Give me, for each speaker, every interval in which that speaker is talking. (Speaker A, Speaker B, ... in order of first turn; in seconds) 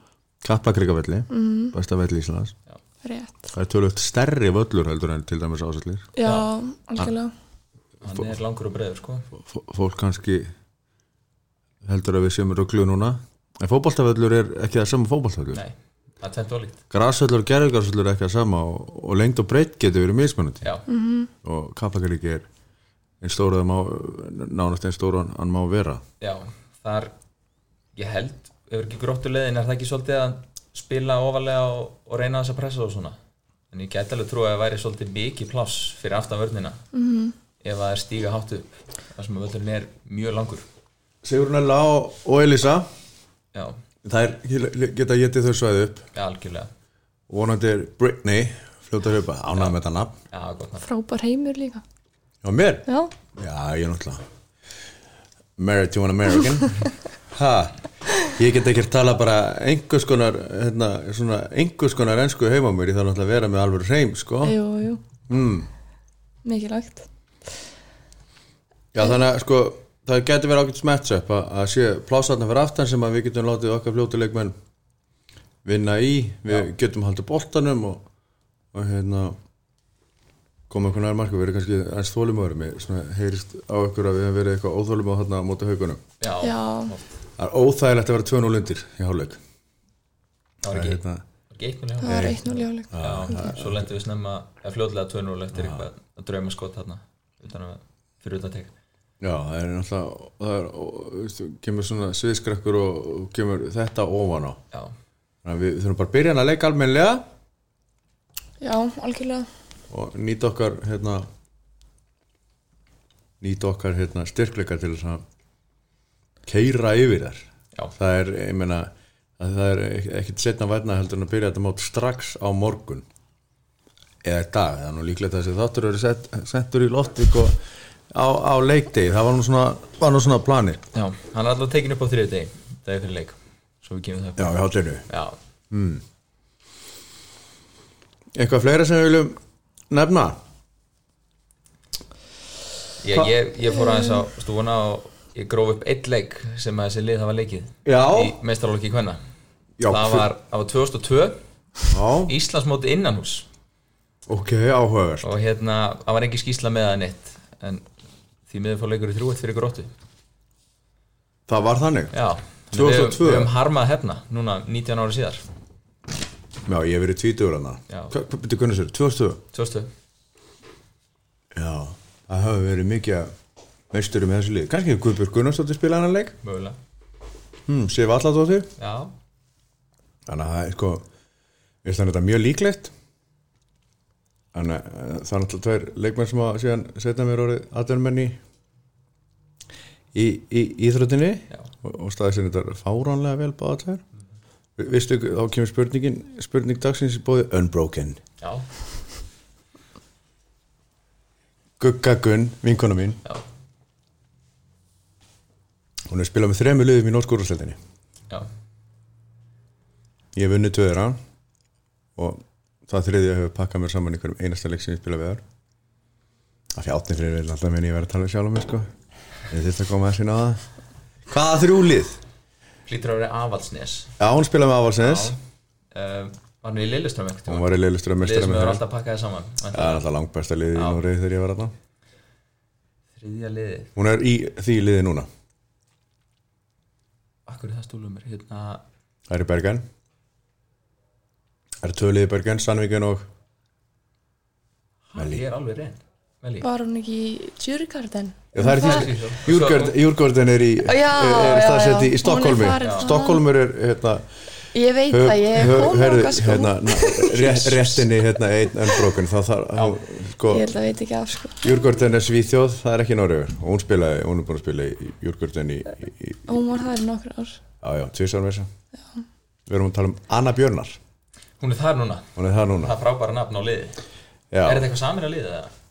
Speaker A: 0.4-2.5, 3.5-6.1, 8.1-8.3, 9.4-10.5, 11.8-15.6, 16.9-20.7, 21.4-22.5, 23.2-26.0, 41.2-42.9, 44.0-46.1, 47.3-50.1, 52.4-54.2, 55.6-64.6, 65.3-65.7, 68.9-74.5, 75.7-78.0, 78.7-79.4, 80.7-86.0, 87.4-89.4, 90.7-91.2, 92.1-92.4, 92.9-93.9, 95.5-95.9, 99.2-104.6, 105.4-107.2, 109.9-111.3, 113.4-115.2, 116.5-123.1, 124.2-127.6, 128.1-130.8, 134.4-135.1, 135.7-136.0, 138.3-139.4, 139.9-140.4, 147.8-148.4, 149.8-150.3, 151.9-152.3, 154.3-155.3, 161.5-162.1, 162.7-163.5, 166.7-169.4, 171.5-173.3, 173.9-176.4, 177.7-178.7, 180.3-181.1, 181.8-182.9, 184.5-188.4, 190.1-194.0, 194.8-198.2, 201.8-203.2, 206.1-207.8, 210.3-211.2, 212.2-215.4, 216.8-218.9, 219.5-220.6, 221.3-222.2, 224.2-225.3, 227.5-228.8, 229.7-231.7, 234.0-235.3, 239.3-239.8, 241.8-243.3, 245.2-245.4, 248.5-254.3, 255.1-260.7, 261.6-266.4, 267.8-268.7, 269.7-271.0, 272.4-272.9, 274.5-274.9
Speaker B: 1.3-1.8, 3.0-3.5, 6.2-7.3, 20.9-21.3, 36.9-37.4, 50.8-51.8, 52.9-53.1, 64.4-65.0, 66.4-67.1, 86.4-86.9, 92.0-93.5, 108.6-109.5, 143.8-144.3, 246.6-249.1, 250.8-253.4, 254.7-258.2, 260.5-261.8, 266.5-267.6
Speaker C: 6.2-6.5, 8.0-9.3, 15.5-16.8, 26.2-27.1, 27.9-33.2, 33.7-36.8, 37.6-40.7, 43.5-43.8, 46.1-46.7, 50.3-50.9, 86.2-87.1, 90.6-91.0, 91.5-98.7, 130.9-134.6, 135.1-135.4, 143.0-149.2, 149.9-151.4, 152.3-153.5, 155.2-157.9, 158.5-159.9, 162.1-165.4, 169.5-169.9, 176.4-176.8, 178.8-179.1, 198.4-198.7, 222.9-224.1, 225.0-225.4, 225.9-230.1, 230.7-231.0, 233.2-233.9, 237.5-238.8, 245.1-246.7, 248.6-250.0, 252.8-253.1, 271.6-274.0, 274.6-275.7